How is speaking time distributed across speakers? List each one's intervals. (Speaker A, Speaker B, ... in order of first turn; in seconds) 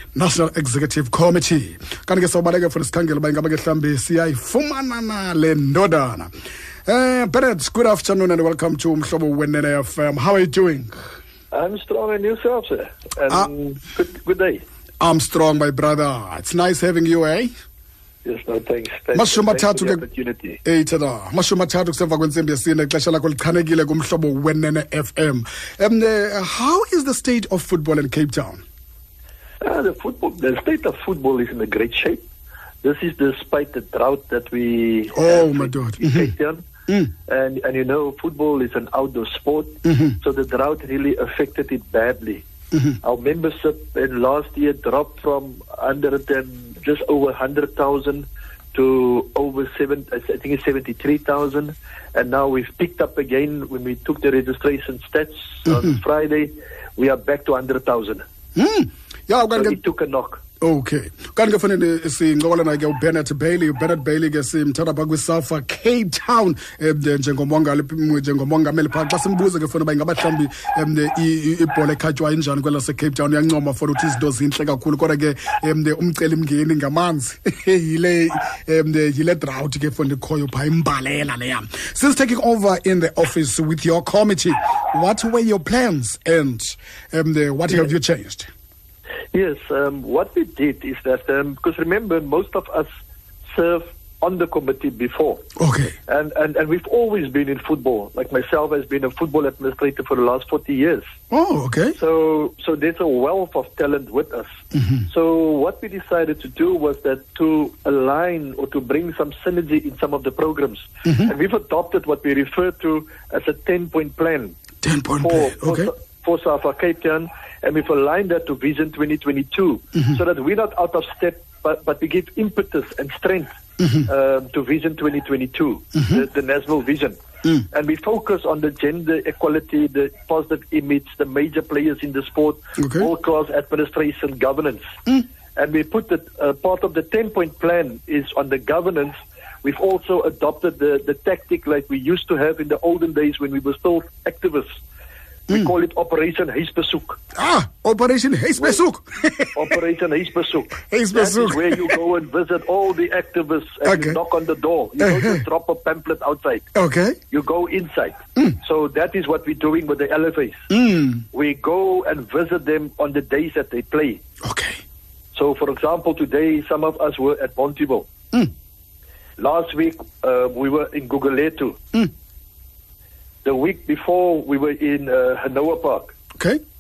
Speaker A: 0.1-6.3, 6.9-10.9, 15.0-17.5, 19.1-20.0, 20.6-28.6, 35.1-36.3, 39.8-40.2, 58.5-59.8, 60.6-88.5, 95.6-95.9, 101.3-102.0, 111.1-111.3, 114.8-115.9, 125.9-126.2, 132.8-133.1, 147.3-149.7, 150.8-151.9, 153.8-154.2, 155.0-155.4, 156.8-157.2, 160.7-161.2, 164.4-164.8
Speaker B: 11.5-14.6, 18.2-20.6, 29.6-32.2, 32.8-36.6, 37.2-42.5, 43.0-58.2, 59.5-60.4, 89.3-92.9, 93.5-95.5, 96.1-101.0, 101.9-114.6, 115.2-123.5, 124.0-134.9, 135.5-144.8, 145.5-147.2, 149.5-156.7, 157.3-160.6, 161.3-164.2, 165.3-168.1, 169.4-171.8, 173.4-176.2